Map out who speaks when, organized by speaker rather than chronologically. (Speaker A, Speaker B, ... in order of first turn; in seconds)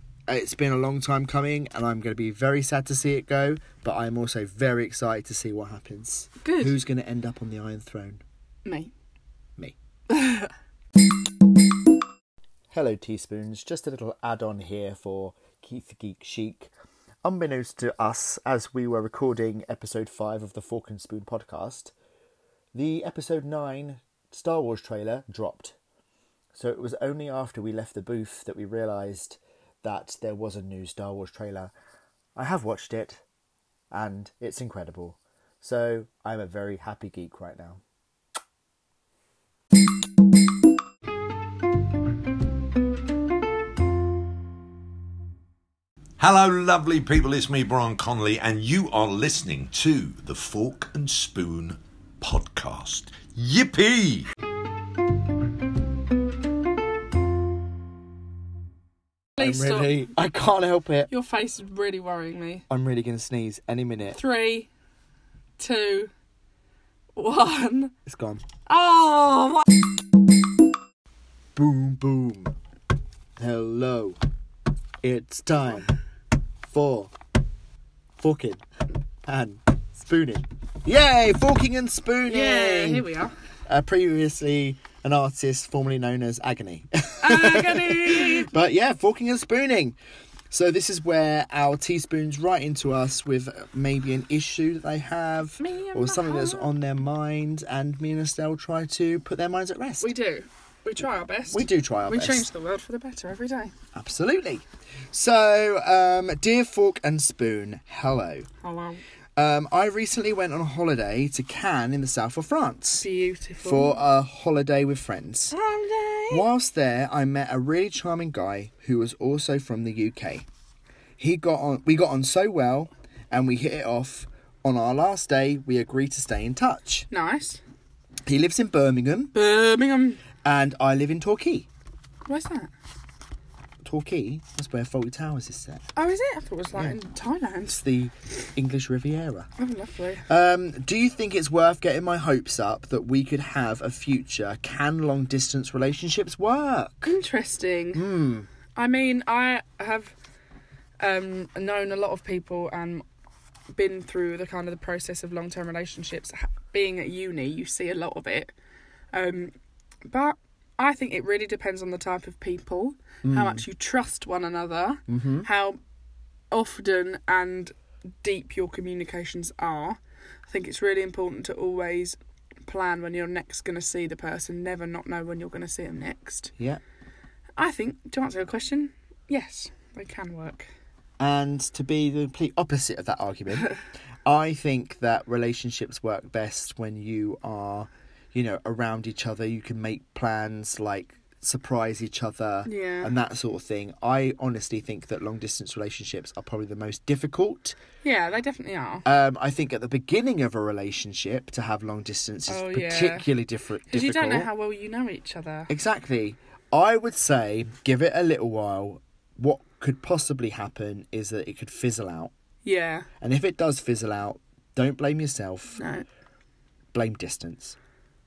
Speaker A: 0.3-8.2, 12.7-16.7, 17.2-21.9, 22.7-25.8, 26.5-31.7, 32.4-33.2, 33.9-37.8, 59.4-61.1, 62.7-64.2, 68.0-68.4, 71.5-72.5, 73.4-74.2, 75.0-75.9, 76.7-77.1, 78.2-78.6, 79.2-83.1, 83.7-90.0, 90.5-100.1, 101.5-102.5, 103.9-108.5, 109.3-113.0, 113.6-115.5, 116.3-120.5, 121.2-127.1, 128.2-129.3, 130.4-131.7, 133.8-135.8, 137.7-139.5, 140.3-147.1, 147.9-148.5, 163.2-163.6, 165.1-165.5, 181.2-197.8, 199.0-204.5, 205.7-212.3, 213.2-215.8, 216.9-217.8
Speaker B: 6.4-6.8, 8.6-8.9, 10.1-10.5, 59.4-60.0, 61.1-62.6, 64.1-64.7, 65.6-66.1, 67.2-67.9, 68.7-69.7, 82.2-83.3, 87.2-88.5, 95.6-96.7, 100.0-103.7, 108.6-109.0, 113.0-114.0, 115.5-116.4, 127.1-127.6, 129.3-130.2, 132.2-132.7, 135.9-137.8, 139.6-140.2, 147.0-148.0, 148.7-150.1, 151.0-153.0, 153.7-158.5, 159.1-159.5, 160.0-165.8, 166.5-176.5, 177.6-180.7, 192.6-193.1, 198.0-199.0, 202.5-203.3, 203.9-205.7, 212.6-213.1, 215.8-216.1
Speaker C: 46.2-54.3